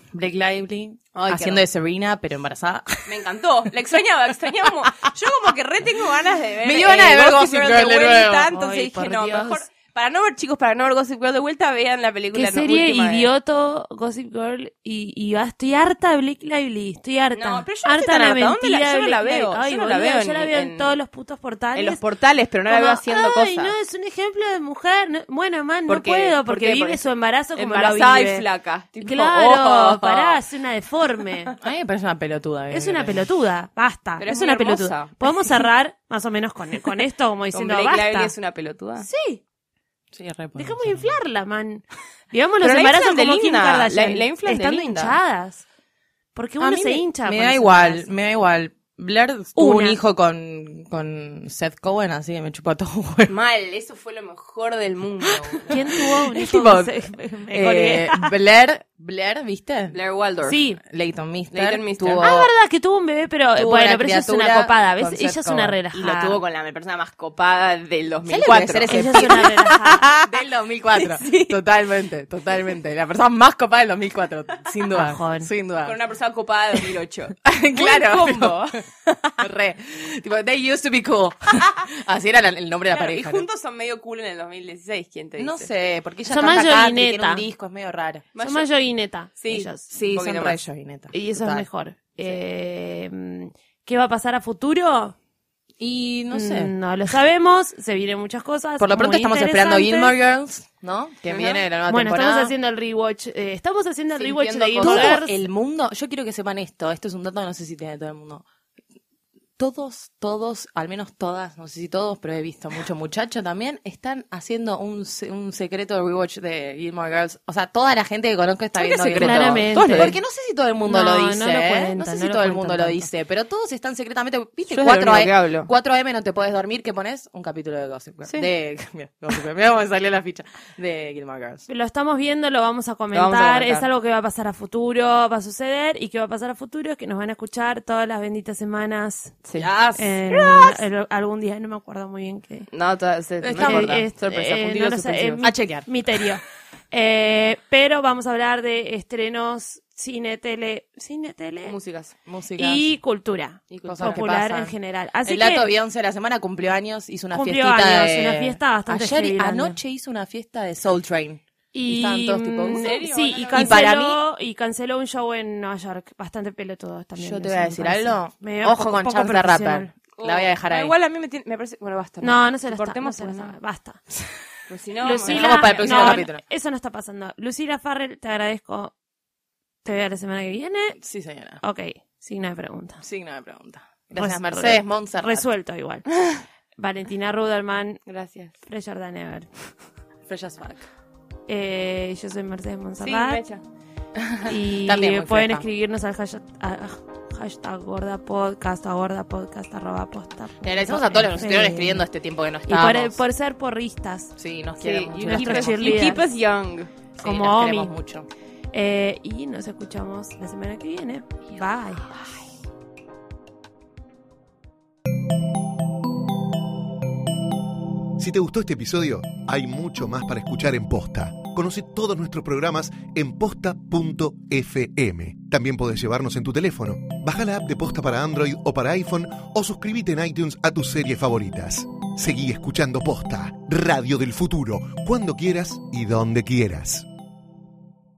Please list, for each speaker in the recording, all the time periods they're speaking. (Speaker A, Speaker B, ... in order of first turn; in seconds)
Speaker A: 0.1-3.2, 6.6-8.5, 31.6-33.2, 40.1-41.1, 46.6-53.3, 55.2-56.9, 57.5-60.0, 60.8-62.5, 63.5-65.8, 68.3-76.0, 77.4-78.7, 79.4-83.5, 85.4-88.3, 89.9-91.7, 95.8-96.7, 98.8-102.5, 104.2-108.4, 109.6-131.7, 139.6-140.7, 143.4-144.0, 145.4-145.9, 152.2-152.9, 153.8-164.2, 167.2-170.9, 175.1-176.4, 181.0-181.6, 183.0-185.4, 190.3-190.9, 194.2-195.6, 200.6-203.2, 204.4-206.2, 207.2-208.3
Speaker B: 1.1-1.6, 3.0-13.3, 17.3-21.0, 21.7-23.7, 25.9-30.4, 34.2-35.2, 37.5-39.1, 42.6-45.1, 53.3-55.8, 59.9-60.6, 61.5-62.3, 65.9-70.3, 70.9-71.6, 75.8-79.3, 82.9-85.7, 88.3-88.7, 89.4-90.6, 101.3-101.6, 104.5-105.2, 118.8-120.1, 124.7-125.7, 133.1-133.9, 142.7-145.4, 151.7-152.1, 153.7-154.2, 162.7-163.8, 170.2-173.5, 174.7-176.2, 188.1-188.5, 193.0-193.6, 204.8-206.9
Speaker C: 8.5-9.6, 12.3-22.0, 22.7-28.4, 29.0-31.5, 32.7-38.3, 39.0-39.4, 40.5-45.6, 46.3-48.1, 49.5-50.0, 55.7-58.3, 60.4-60.8, 62.1-66.4, 68.9-70.0, 74.9-75.5, 86.3-87.4, 88.4-89.9, 91.1-95.2, 96.3-100.2, 101.9-105.4, 119.2-120.1, 120.8-123.1, 131.7-139.4, 139.9-142.7, 143.6-151.8, 152.6-155.7, 157.3-159.8, 161.7-169.9, 172.2-174.0, 175.0-178.9, 179.8-181.0, 181.6-183.0, 184.1-186.1, 186.8-188.0, 188.6-189.5, 191.5-193.4, 194.4-202.1, 202.7-204.3, 205.2-206.2, 207.2-207.9, 208.7-212.1
Speaker D: 218.2-237.1